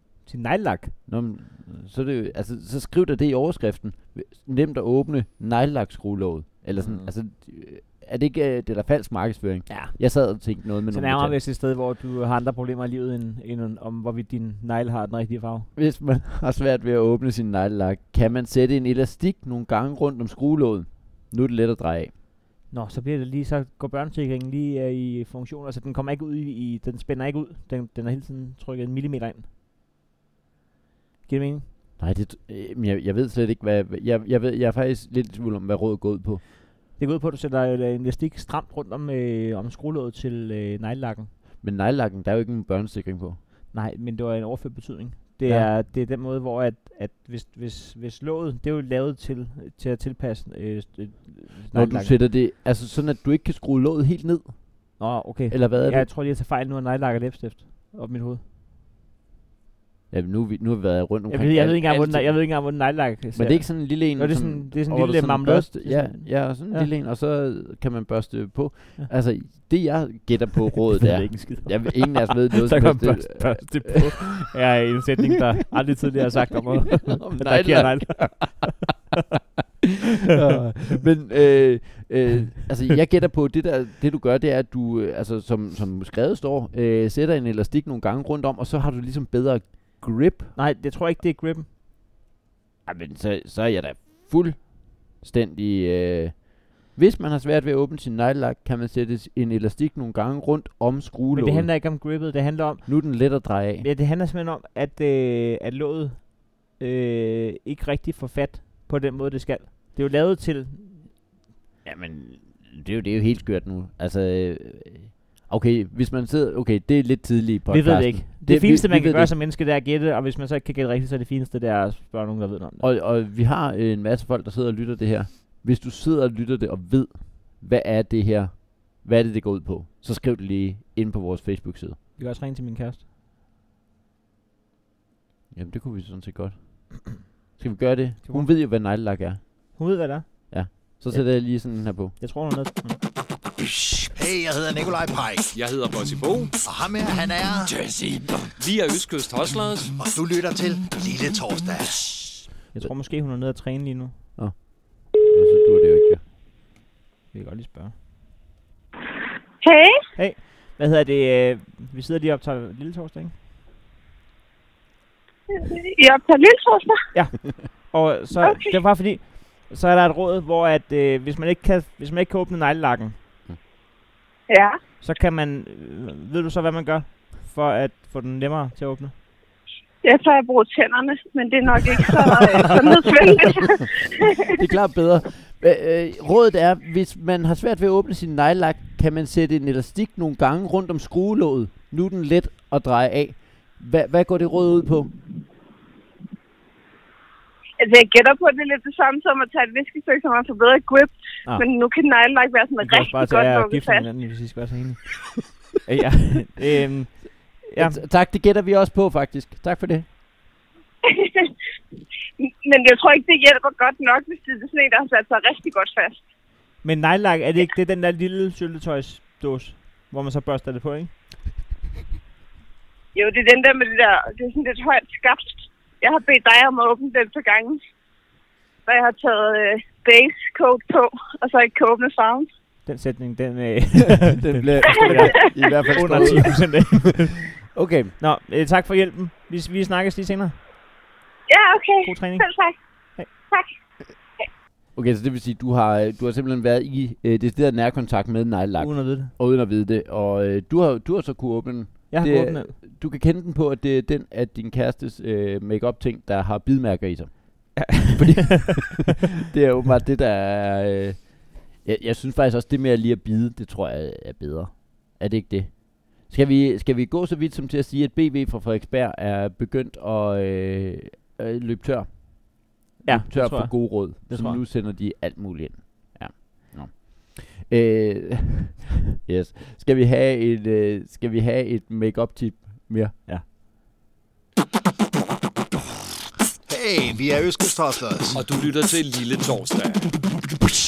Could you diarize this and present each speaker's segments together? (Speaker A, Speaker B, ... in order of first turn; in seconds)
Speaker A: 0.2-0.9, 6.8-7.1, 9.7-15.7, 22.7-29.4, 31.2-31.6, 36.9-41.3, 43.7-52.2, 55.0-58.4, 61.3-66.9, 71.0-78.7, 90.5-91.7, 101.3-111.1, 117.7-122.9, 132.2-133.0, 138.2-138.5, 139.7-143.0, 152.7-154.1, 157.3-157.9, 160.2-163.3, 167.1-173.2, 175.0-179.1, 202.8-208.0, 216.8-221.1, 232.8-237.7, 238.2-240.5, 242.0-242.5, 248.8-249.3, 252.1-252.8, 273.0-274.6
Speaker B: 1.1-11.4, 15.7-22.1, 32.0-36.4, 41.6-43.4, 45.5-45.7, 51.7-56.1, 60.1-74.5, 77.0-78.8, 80.3-90.5, 92.8-101.7, 102.8-103.9, 111.8-119.3, 122.8-132.0, 135.5-139.8, 140.5-142.1, 154.3-156.2, 184.4-195.1, 207.8-210.1, 234.1-237.1, 237.7-238.1, 244.9-283.1
Speaker C: 144.0-145.5, 146.6-148.3, 149.9-152.4, 286.7-288.4
Speaker D: 145.5-146.5, 148.6-149.9, 288.3-290.1
Speaker E: 159.6-160.0, 165.5-167.0, 168.4-168.8, 174.5-174.8, 180.0-183.9, 197.8-204.0, 211.0-211.5, 212.4-216.2, 223.1-227.8, 228.8-232.5, 241.5-242.8, 243.3-243.7